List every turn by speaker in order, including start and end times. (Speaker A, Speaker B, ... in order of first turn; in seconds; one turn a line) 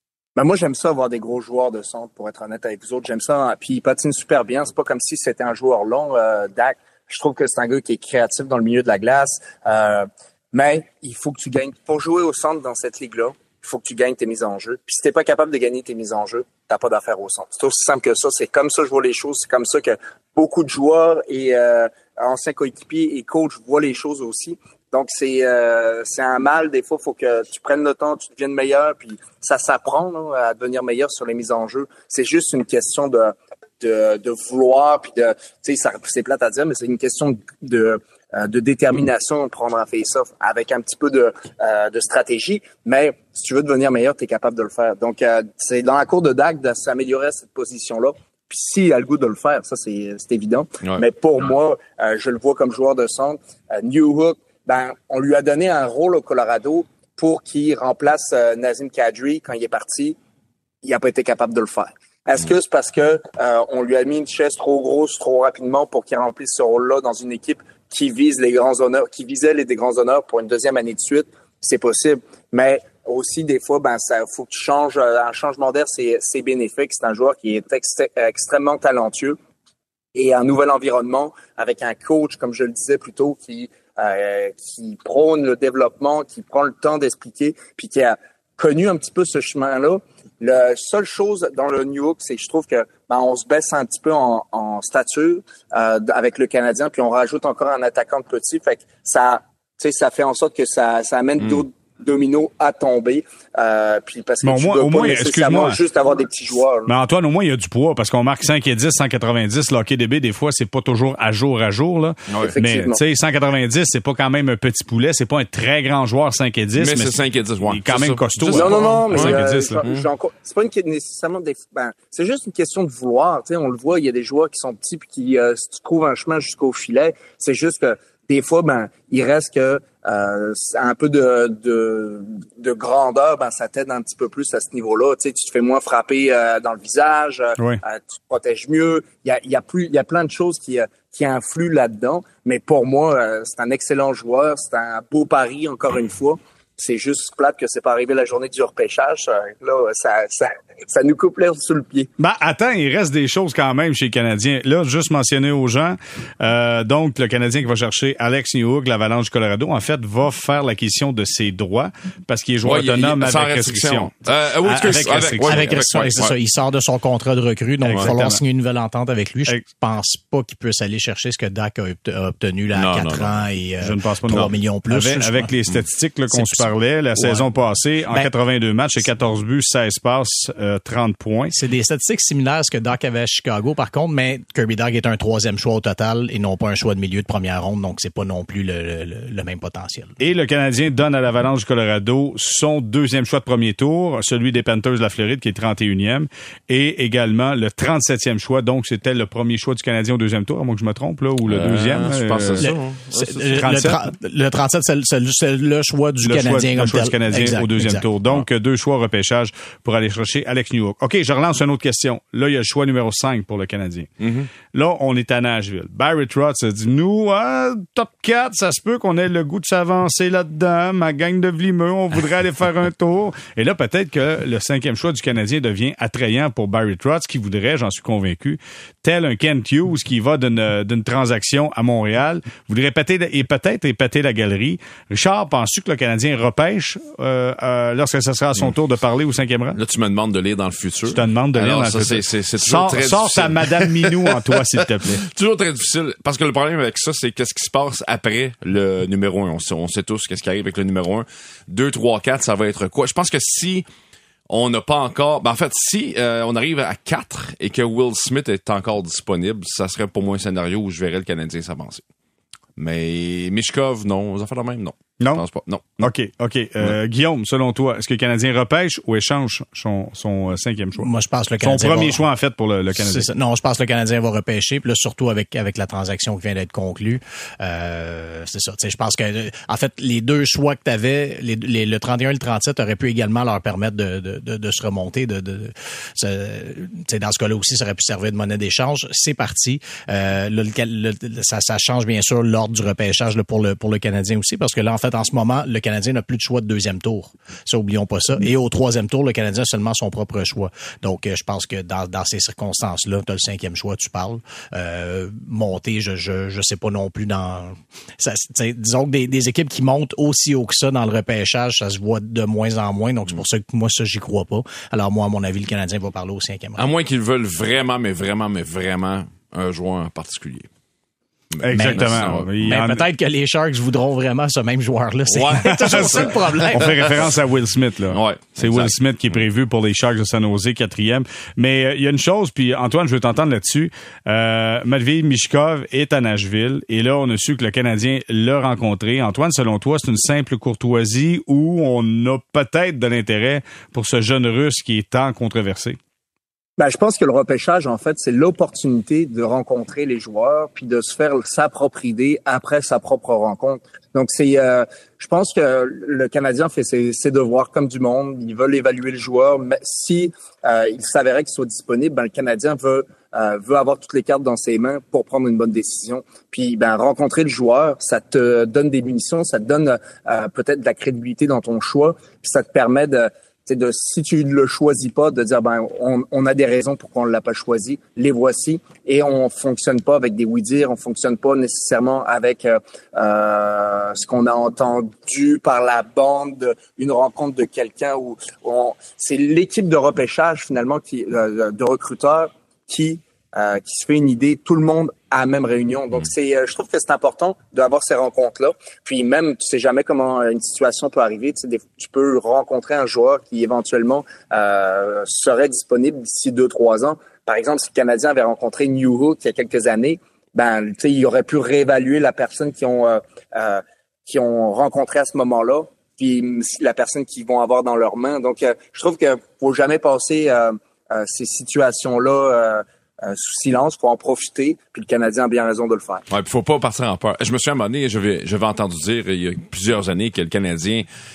Speaker A: 0.3-60.2
Speaker A: 60.8-79.4
Speaker A: 80.1-106.9
Speaker B: 104.4-105.8
Speaker B: 106.9-119.8
Speaker C: 112.3-112.5
Speaker A: 112.4-113.0
Speaker C: 116.8-120.0
Speaker A: 118.5-152.1
Speaker B: 152.2-164.1
Speaker C: 162.6-166.3
Speaker B: 164.7-165.8
Speaker D: 164.8-175.6
Speaker B: 167.8-168.4
Speaker C: 172.7-173.4
Speaker B: 173.8-181.5
Speaker D: 176.3-177.5
Speaker D: 181.5-190.1
Speaker B: 190.2-202.7
Speaker C: 201.5-203.8
Speaker D: 202.6-208.0
Speaker B: 203.5-204.0
Speaker B: 206.2-214.1
Speaker C: 214.2-214.5
Speaker B: 214.7-239.8
Speaker C: 239.8-244.4
Speaker B: 241.1-245.2
Speaker C: 245.0-253.8
Speaker C: 254.5-262.0
Speaker C: 262.8-266.0
Speaker B: 266.0-271.1
Speaker D: 271.0-272.2
Speaker B: 271.6-273.3
Speaker D: 272.9-316.8
Speaker C: 316.8-320.7
Speaker C: 321.5-322.5
Speaker B: 321.6-323.0
Speaker D: 321.7-326.9
Speaker C: 325.3-327.2
Speaker B: 325.6-346.0
Speaker C: 328.1-329.4
Speaker A: 346.8-426.2
Speaker C: 426.3-431.1